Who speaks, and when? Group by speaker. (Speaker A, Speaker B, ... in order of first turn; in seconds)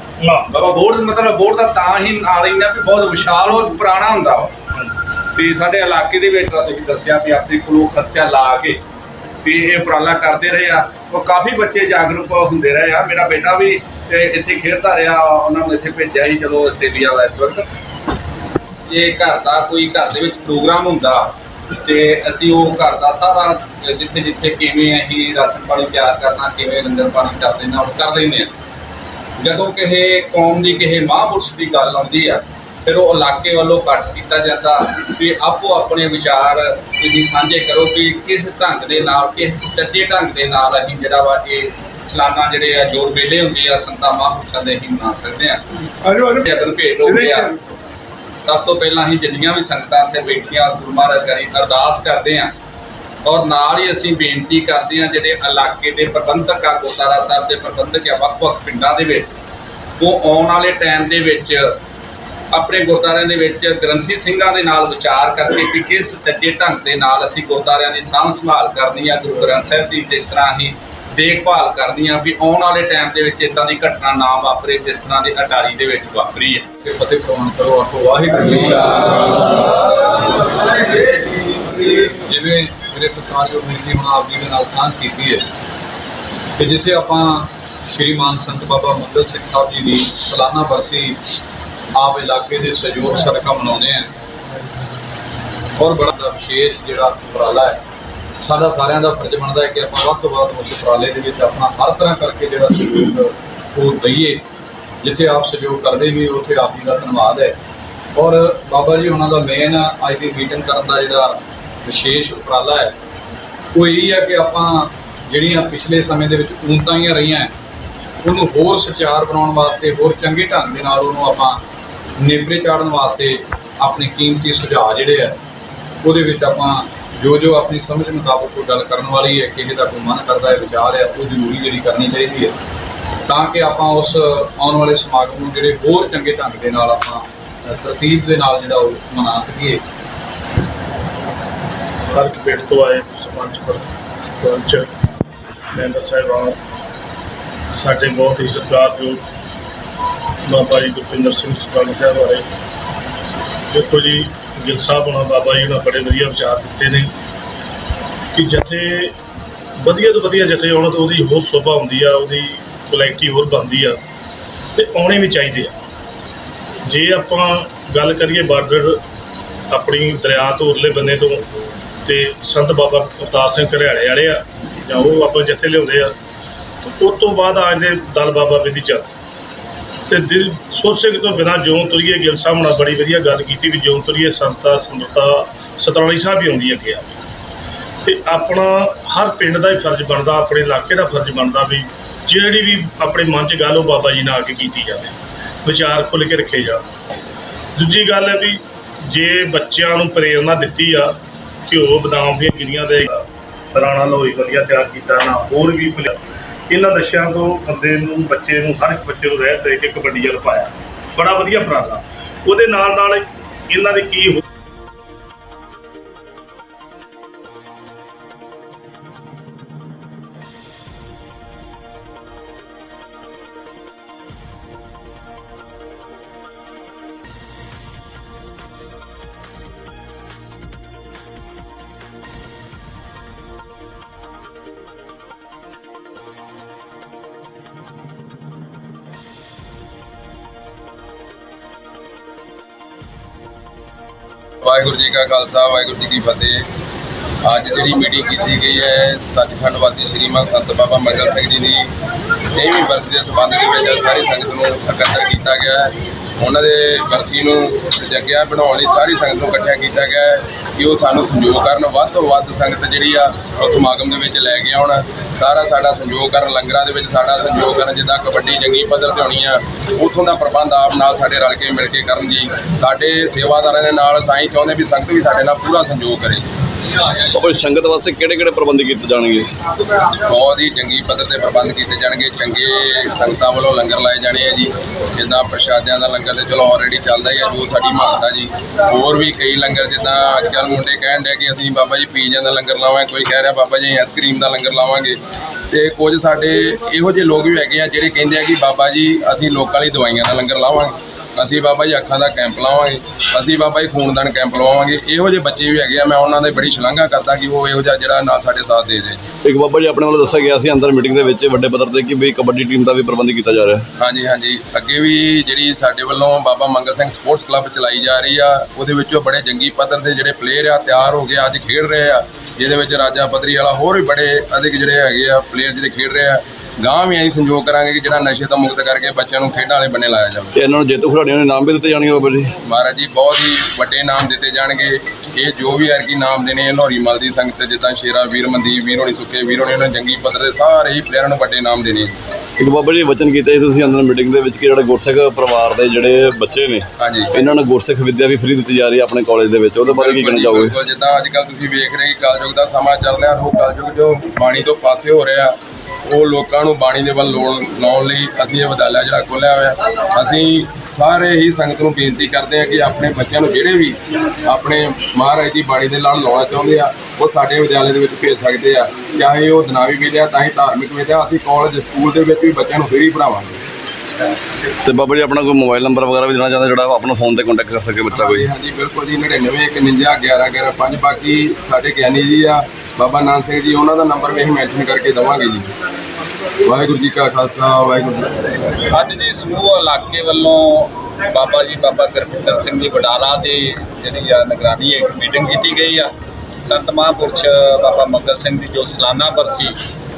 Speaker A: 0.2-0.5, 142.1-143.9, 144.4-144.9, 145.7-146.6, 147.8-149.2, 150.5-152.4, 153.7-157.1, 158.3-159.1, 159.8-164.0, 164.7-165.7, 166.8-169.0, 169.7-171.4, 172.0-176.1, 176.8-179.1, 180.1-187.2, 188.0-195.1, 195.6-196.8, 197.8-201.1, 201.7-214.4
Speaker B: 0.5-4.5, 5.3-8.8, 9.4-17.6, 18.9-28.5, 29.4-47.6, 48.4-52.5, 53.2-59.3, 60.0-61.7, 62.5-76.7, 388.9-396.1, 396.6-399.8
Speaker C: 76.8-85.5, 86.5-91.3, 92.0-94.1, 95.8-97.8, 98.4-104.4, 105.0-107.6, 108.2-112.9, 113.7-117.5, 118.2-121.6, 122.2-125.4, 126.0-132.6, 133.2-139.8
Speaker D: 244.6-246.7, 247.4-251.9, 252.5-276.4, 280.2-295.2, 295.7-309.2, 314.0-330.5, 332.6-342.2, 347.0-347.3, 349.9-373.6, 378.1-385.7, 386.6-388.7
Speaker E: 277.3-279.5, 309.4-313.8, 330.6-332.5, 342.6-350.7, 374.8-378.5